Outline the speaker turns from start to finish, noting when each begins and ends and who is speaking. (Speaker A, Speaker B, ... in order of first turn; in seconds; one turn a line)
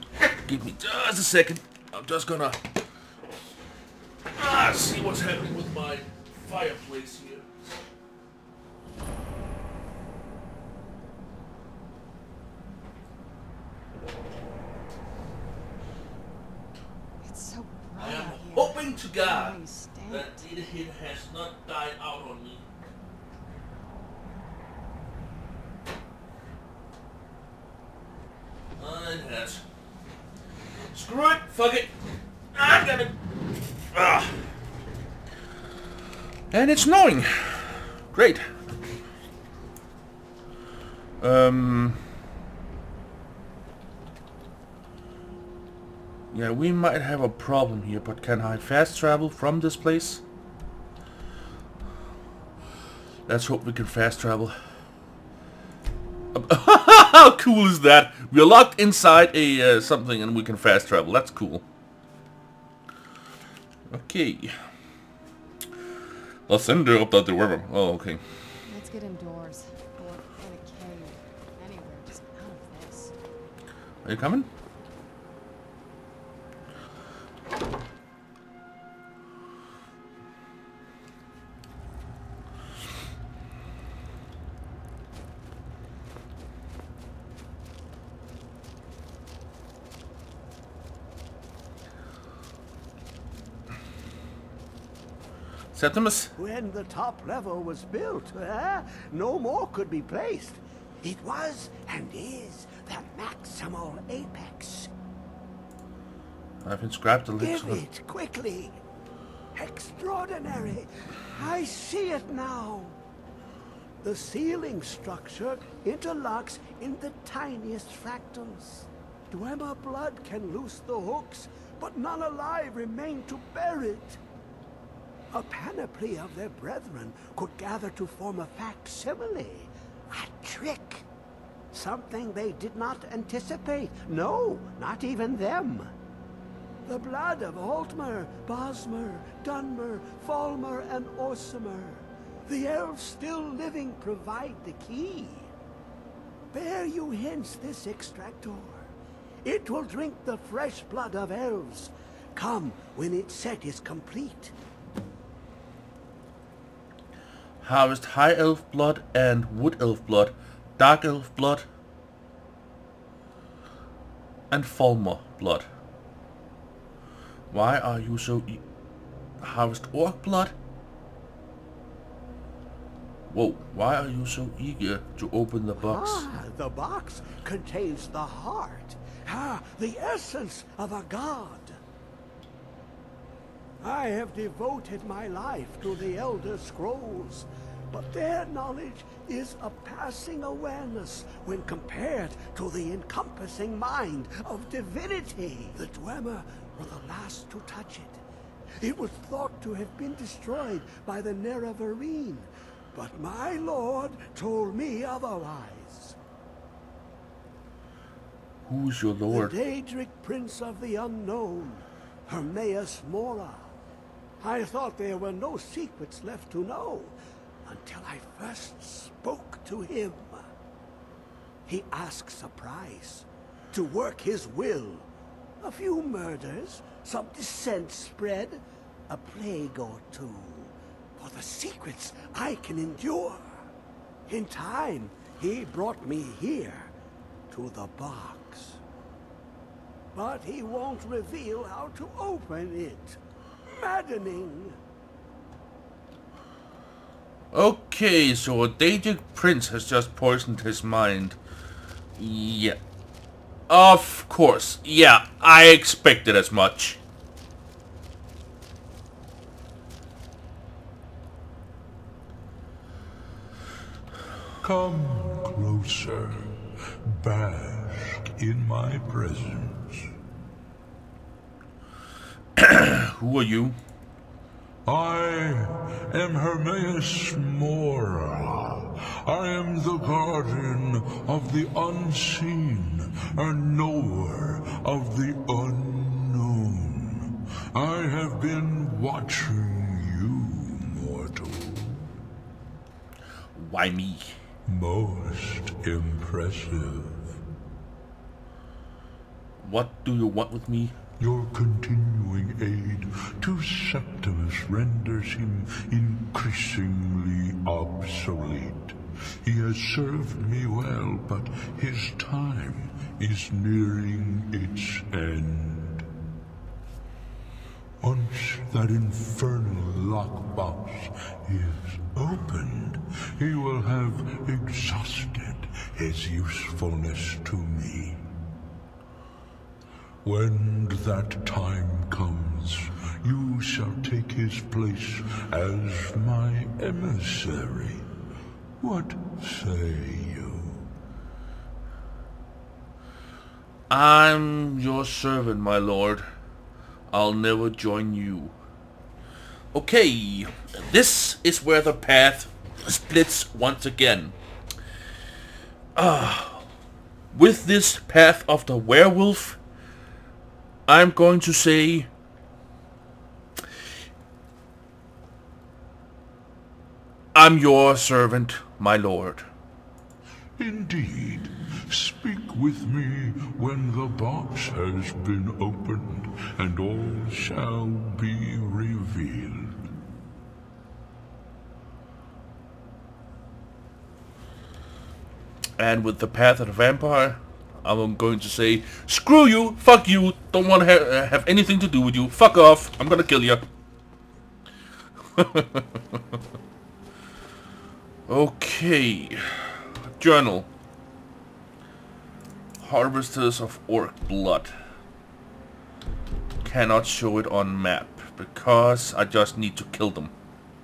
Speaker A: 0.2-2.8
Speaker A: 4.3-7.5
Speaker B: 17.2-20.5
Speaker A: 18.0-22.6
Speaker A: 28.8-29.6
Speaker A: 30.9-31.9
Speaker A: 32.5-33.2
Speaker A: 33.9-34.5
Speaker A: 36.5-38.5
Speaker A: 41.2-42.0
Speaker A: 46.3-50.2
Speaker A: 53.3-54.5
Speaker A: 56.3-61.6
Speaker A: 63.9-64.6
Speaker A: 66.5-68.2
Speaker B: 68.7-73.1
Speaker A: 74.0-74.5
Speaker A: 95.7-96.3
Speaker C: 96.4-104.9
Speaker A: 106.6-107.8
Speaker C: 107.4-108.8
Speaker C: 109.5-113.0
Speaker C: 114.0-124.2
Speaker C: 125.3-131.1
Speaker C: 131.7-135.9
Speaker C: 136.8-145.5
Speaker C: 146.5-148.9
Speaker C: 149.4-154.5
Speaker A: 157.6-161.7
Speaker A: 164.5-165.7
Speaker A: 167.5-168.6
Speaker A: 169.4-170.5
Speaker A: 173.3-176.3
Speaker C: 175.8-181.8
Speaker C: 183.8-198.2
Speaker C: 198.8-206.2
Speaker A: 208.7-209.5
Speaker C: 209.3-213.7
Speaker C: 214.4-220.4
Speaker C: 221.7-225.1
Speaker C: 225.6-233.6
Speaker C: 234.3-236.9
Speaker C: 237.5-238.8
Speaker C: 240.1-244.8
Speaker A: 247.5-251.4
Speaker A: 252.2-252.8
Speaker A: 253.7-257.0
Speaker D: 264.6-270.1
Speaker A: 272.6-273.8
Speaker D: 274.9-292.1
Speaker A: 293.6-294.4
Speaker D: 294.7-297.4
Speaker A: 299.6-300.9
Speaker D: 301.2-316.1
Speaker D: 318.0-328.2
Speaker D: 330.2-338.1
Speaker D: 338.8-340.9
Speaker A: 343.9-346.3
Speaker A: 347.1-348.5
Speaker A: 349.7-354.3
Speaker A: 355.9-356.6
Speaker A: 357.3-359.6
Speaker A: 360.9-362.1
Speaker A: 367.3-369.5
Speaker D: 370.6-379.9
Speaker A: 385.8-393.6
Speaker A: 395.3-396.2
Speaker A: 398.3-400.7
Speaker A: 402.8-404.7
Speaker A: 406.6-410.3